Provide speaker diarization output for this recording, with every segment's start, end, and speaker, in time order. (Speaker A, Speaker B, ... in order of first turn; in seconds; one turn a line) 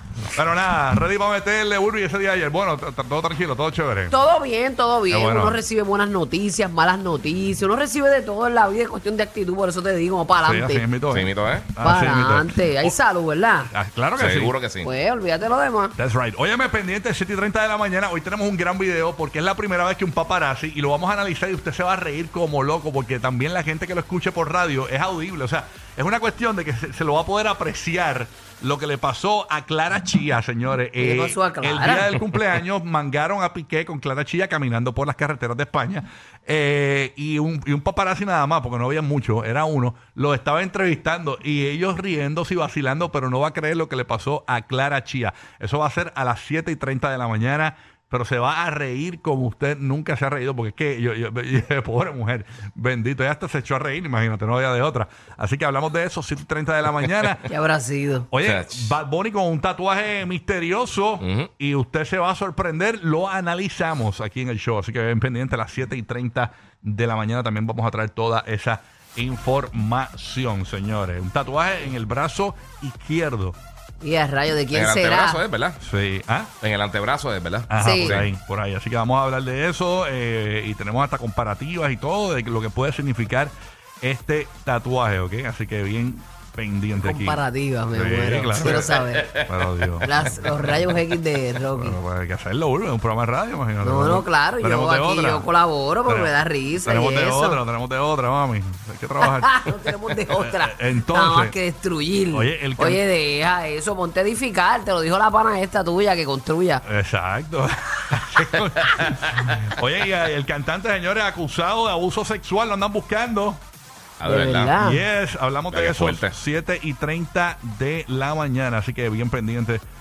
Speaker A: 0.3-4.2
Speaker B: 4.1-10.8
Speaker A: 5.1-5.6
Speaker A: 10.4-12.9
Speaker C: 11.1-11.7
Speaker B: 11.8-13.7
Speaker A: 13.7-14.5
Speaker C: 14.2-14.9
Speaker B: 14.8-15.9
Speaker A: 15.9-57.5
Speaker B: 31.0-32.2
Speaker B: 57.5-58.3
Speaker A: 58.3-73.5
Speaker C: 58.4-59.0
Speaker C: 61.2-61.5
Speaker B: 74.0-75.4
Speaker C: 74.7-75.8
Speaker A: 75.8-76.5
Speaker C: 76.6-78.3
Speaker A: 77.7-88.9
Speaker B: 77.7-78.2
Speaker B: 87.0-89.3
Speaker C: 88.6-90.8
Speaker A: 89.4-90.4
Speaker B: 90.0-92.0
Speaker A: 91.7-95.5
Speaker B: 93.8-97.6
Speaker A: 96.0-101.5
Speaker B: 99.2-106.8
Speaker A: 102.3-103.0
Speaker A: 106.8-113.6
Speaker C: 114.2-114.7
Speaker B: 114.2-115.0
Speaker A: 114.8-119.8
Speaker C: 115.7-116.4